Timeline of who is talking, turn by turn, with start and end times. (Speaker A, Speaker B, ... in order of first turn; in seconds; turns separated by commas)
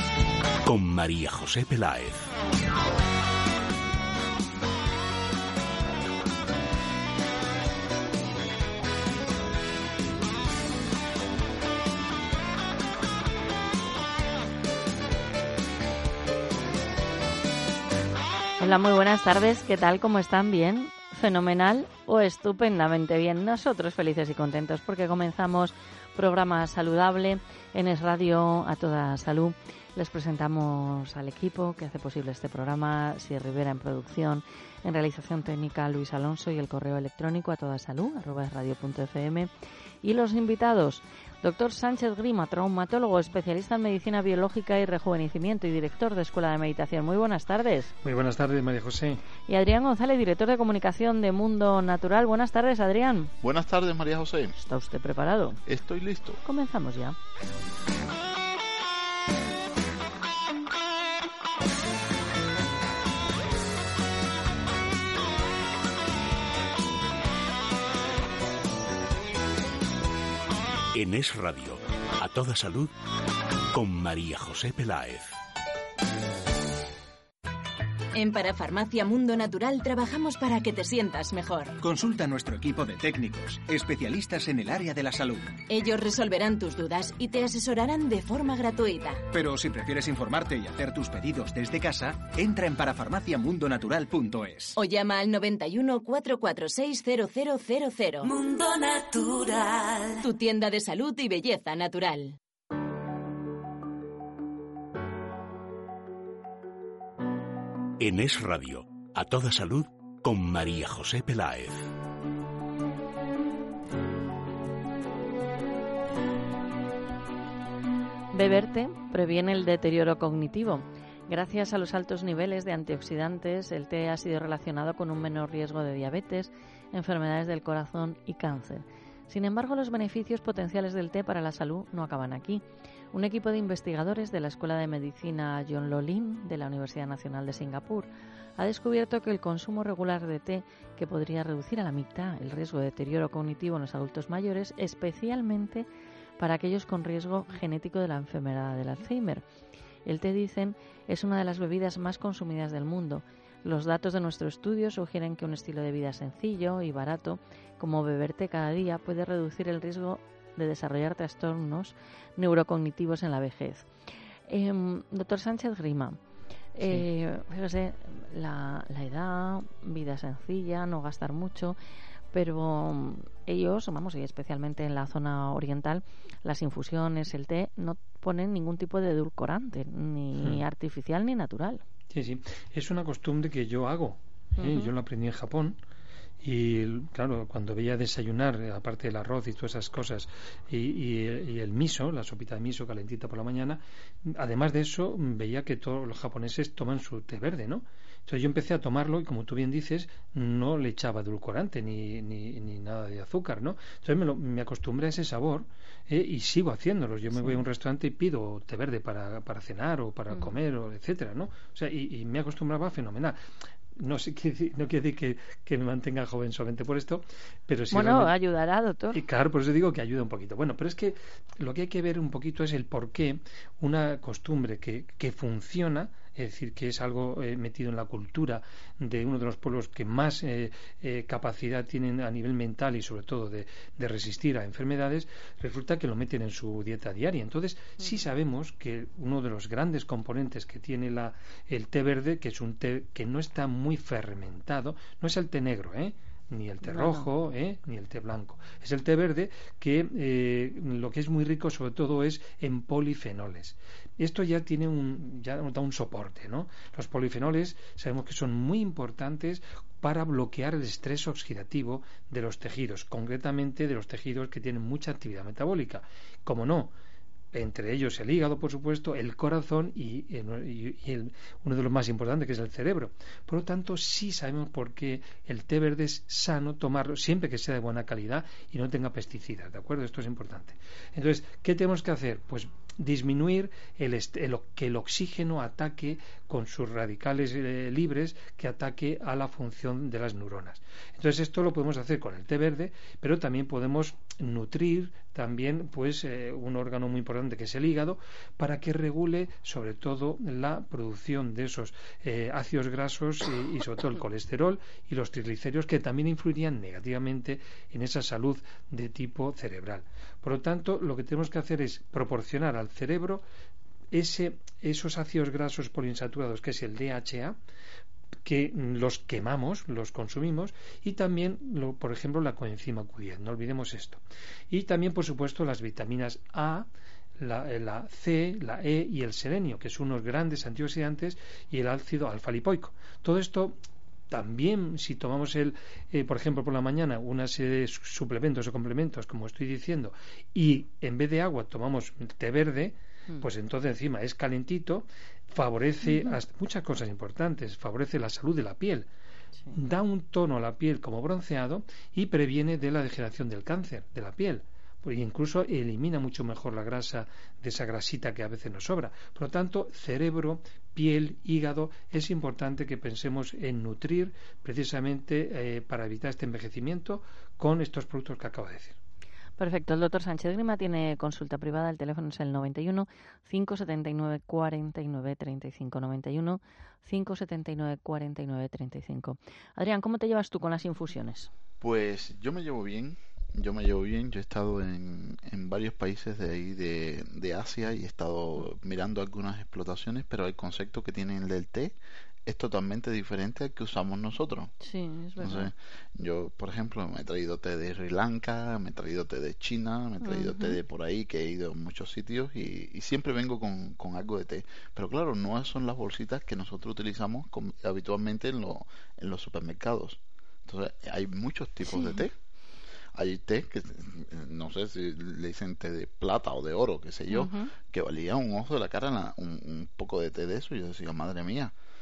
Speaker A: 0.7-2.3, Speaker B: 18.6-39.5, Speaker B: 40.0-47.9, Speaker C: 48.0-49.2, Speaker B: 49.5-53.3, Speaker D: 53.4-54.6, Speaker B: 54.6-55.6, Speaker D: 55.7-56.4, Speaker B: 56.5-57.2, Speaker A: 70.9-72.9, Speaker A: 73.7-75.4, Speaker E: 78.1-81.7, Speaker F: 81.8-85.6, Speaker E: 85.7-89.2, Speaker F: 89.3-94.8, Speaker E: 94.8-98.3, Speaker G: 98.2-100.2, Speaker E: 100.2-102.4, Speaker A: 108.0-111.9, Speaker B: 118.3-145.9, Speaker B: 146.4-149.4, Speaker B: 150.1-163.9, Speaker B: 164.5-166.2, Speaker B: 166.8-171.8, Speaker C: 166.8-167.1, Speaker B: 172.3-181.8, Speaker C: 180.4-180.6, Speaker C: 182.1-185.8, Speaker B: 184.6-184.9, Speaker C: 186.4-213.4, Speaker B: 207.3-207.6, Speaker C: 214.0-218.3, Speaker B: 217.9-219.2, Speaker C: 219.1-266.9, Speaker B: 246.8-247.3, Speaker C: 267.5-313.4, Speaker C: 314.1-317.6, Speaker C: 318.4-326.9, Speaker C: 327.4-333.8, Speaker C: 334.3-349.1, Speaker B: 346.1-346.3, Speaker C: 349.7-369.0, Speaker B: 369.6-381.5, Speaker D: 381.8-394.7, Speaker B: 394.8-395.7, Speaker D: 395.4-412.3, Speaker B: 400.2-400.8, Speaker B: 411.9-412.2, Speaker D: 413.1-421.7, Speaker B: 417.3-417.7